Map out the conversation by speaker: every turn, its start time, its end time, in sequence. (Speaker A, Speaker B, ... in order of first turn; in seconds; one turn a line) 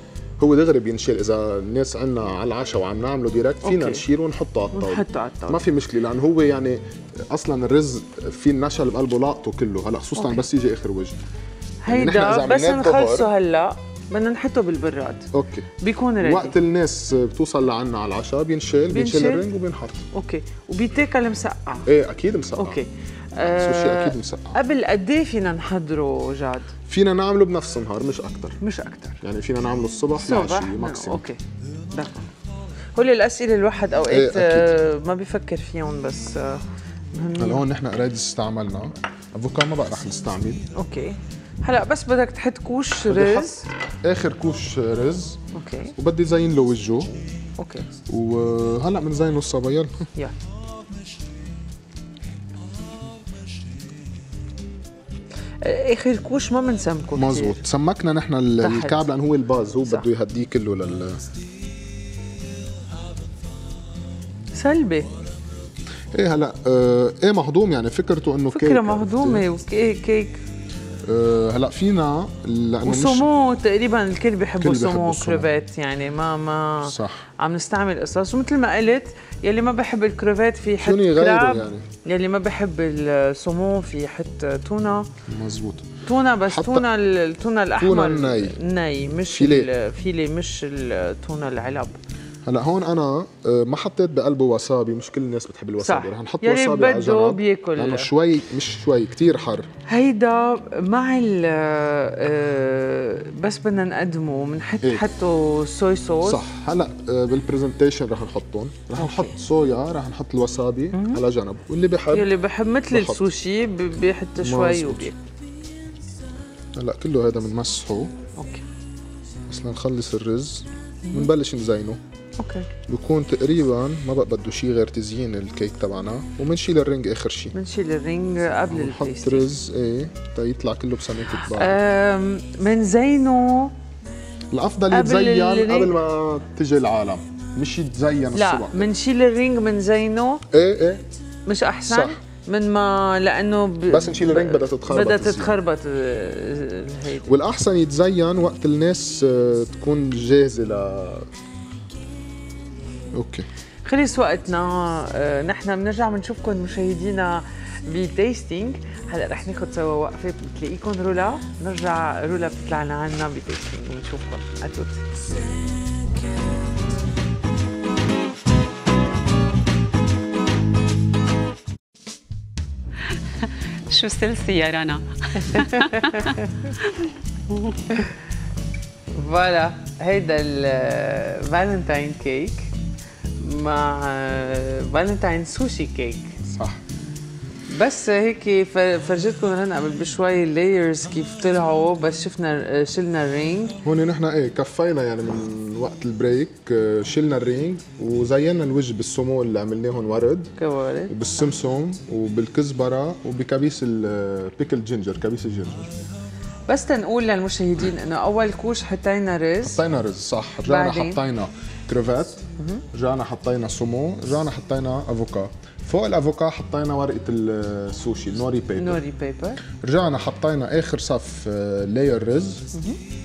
Speaker A: 0.4-11.2
Speaker B: 3.6-4.0
Speaker B: 4.7-5.6
Speaker B: 11.8-16.5
Speaker A: 11.9-13.3
Speaker A: 15.3-20.1
Speaker B: 18.9-19.5
Speaker B: 20.1-21.9
Speaker A: 21.9-22.8
Speaker B: 22.6-26.7
Speaker A: 23.4-24.6
Speaker A: 26.9-28.6
Speaker B: 28.6-29.2
Speaker A: 29.2-31.2
Speaker B: 30.2-32.3
Speaker B: 32.9-37.6
Speaker A: 34.1-34.7
Speaker A: 37.4-40.7
Speaker B: 40.7-43.6
Speaker A: 43.0-43.5
Speaker A: 44.0-45.4
Speaker B: 45.5-45.9
Speaker A: 46.0-47.1
Speaker B: 47.6-47.9
Speaker A: 48.1-50.1
Speaker B: 55.6-57.6
Speaker A: 57.1-61.2
Speaker B: 58.6-59.0
Speaker B: 64.5-65.1
Speaker A: 66.1-69.4
Speaker B: 68.5-70.4
Speaker A: 71.0-73.3
Speaker B: 72.8-85.1
Speaker A: 74.6-75.5
Speaker A: 76.8-77.2
Speaker A: 80.8-81.9
Speaker A: 85.3-85.9
Speaker B: 86.0-92.0
Speaker A: 86.5-86.8
Speaker A: 87.8-88.6
Speaker A: 89.3-89.7
Speaker A: 92.4-99.7
Speaker B: 95.8-98.1
Speaker B: 99.8-106.4
Speaker A: 106.2-112.3
Speaker B: 109.0-109.3
Speaker B: 110.9-111.2
Speaker B: 112.1-115.2
Speaker A: 112.9-113.2
Speaker A: 114.4-115.1
Speaker A: 116.7-118.1
Speaker B: 118.3-118.6
Speaker A: 119.5-122.0
Speaker B: 122.4-122.7
Speaker A: 122.9-127.5
Speaker B: 127.5-129.5
Speaker A: 128.7-131.8
Speaker B: 131.3-133.7
Speaker A: 134.5-138.9
Speaker B: 134.9-135.9
Speaker B: 138.3-140.4
Speaker A: 140.5-141.1
Speaker B: 141.4-147.3
Speaker A: 141.9-142.2
Speaker A: 143.9-145.6
Speaker A: 147.2-151.3
Speaker A: 153.1-153.5
Speaker B: 153.8-165.1
Speaker C: 173.8-178.0
Speaker B: 175.4-176.7
Speaker B: 179.1-182.7
Speaker B: 183.4-186.4
Speaker A: 186.4-186.8
Speaker B: 187.7-193.8
Speaker A: 193.8-200.5
Speaker B: 200.6-201.2
Speaker A: 201.1-206.0
Speaker B: 206.7-209.8
Speaker A: 209.6-219.0
Speaker B: 210.7-211.2
Speaker B: 212.6-212.8
Speaker B: 218.8-219.6
Speaker A: 219.8-222.7
Speaker B: 222.7-223.0